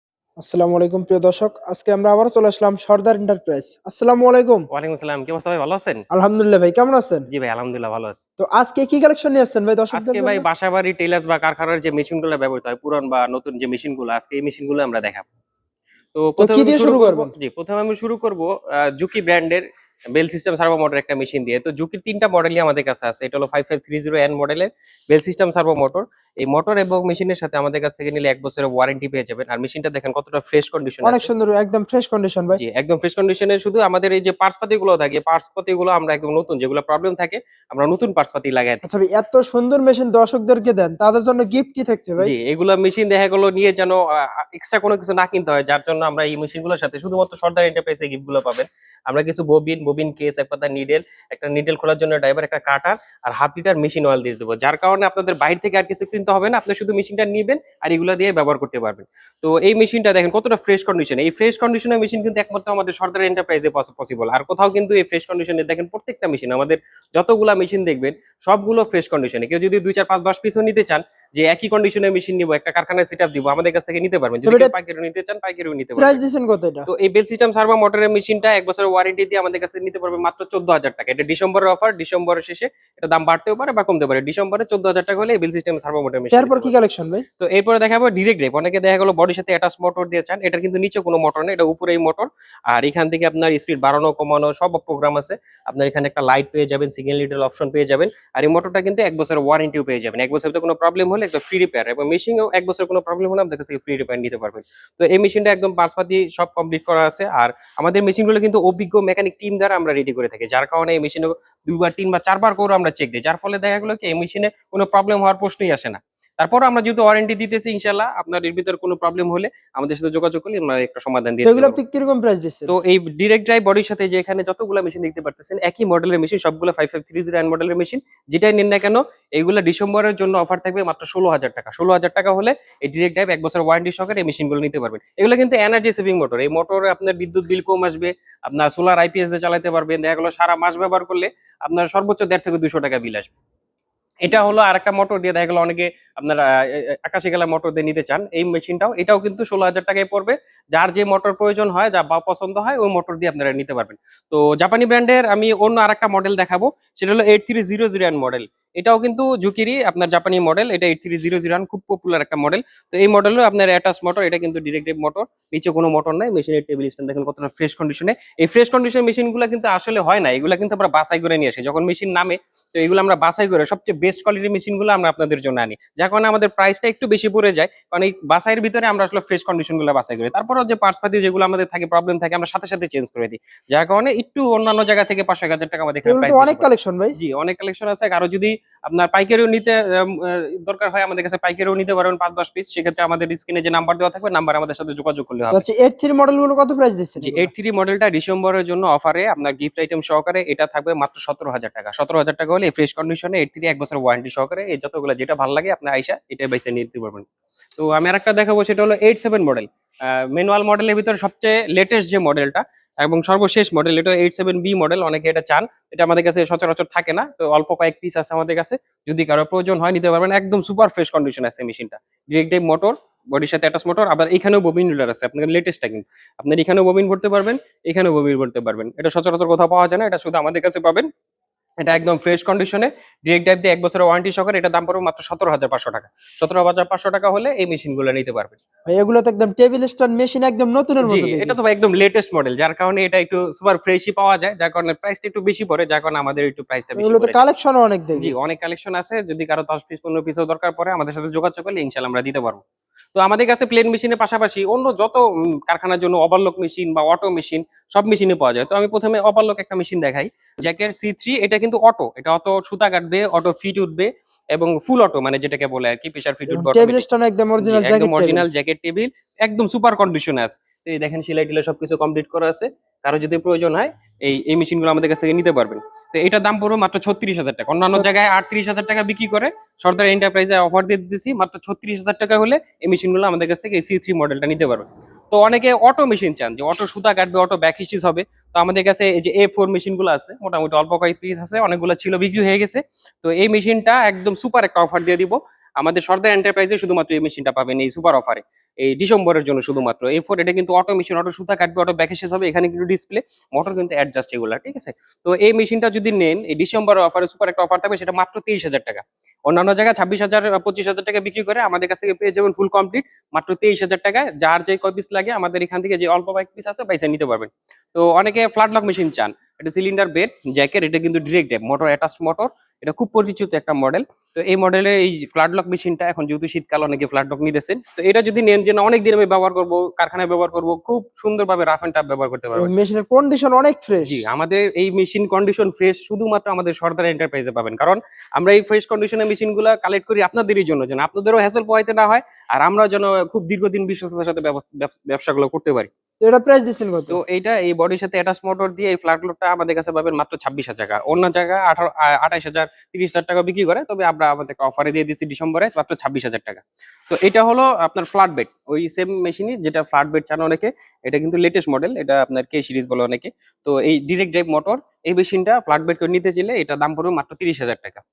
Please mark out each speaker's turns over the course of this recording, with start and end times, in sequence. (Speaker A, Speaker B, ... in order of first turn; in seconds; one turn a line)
Speaker A: 0.4-4.7
Speaker B: 4.7-6.0
Speaker A: 6.1-7.3
Speaker B: 7.3-8.2
Speaker A: 8.4-10.4
Speaker B: 9.9-15.3
Speaker B: 16.1-31.3
Speaker A: 16.4-17.3
Speaker A: 31.0-32.6
Speaker B: 32.5-38.8
Speaker A: 38.8-42.3
Speaker B: 42.2-76.2
Speaker A: 74.4-74.7
Speaker A: 76.0-76.9
Speaker B: 76.9-86.7
Speaker A: 86.3-87.2
Speaker B: 87.4-121.8
Speaker A: 121.4-122.7
Speaker B: 122.7-143.3
Speaker B: 144.2-195.6
Speaker A: 186.1-187.2
Speaker A: 195.5-197.5
Speaker B: 197.2-231.1
Speaker B: 231.8-238.6
Speaker A: 238.9-241.6
Speaker B: 241.0-247.4
Speaker A: 247.0-248.3
Speaker B: 248.2-252.6
Speaker B: 253.2-267.1
Speaker A: 266.5-268.5
Speaker B: 267.6-332.7
Speaker A: 332.6-334.2
Speaker B: 334.0-345.9
Speaker A: 346.2-347.2
Speaker B: 347.1-368.0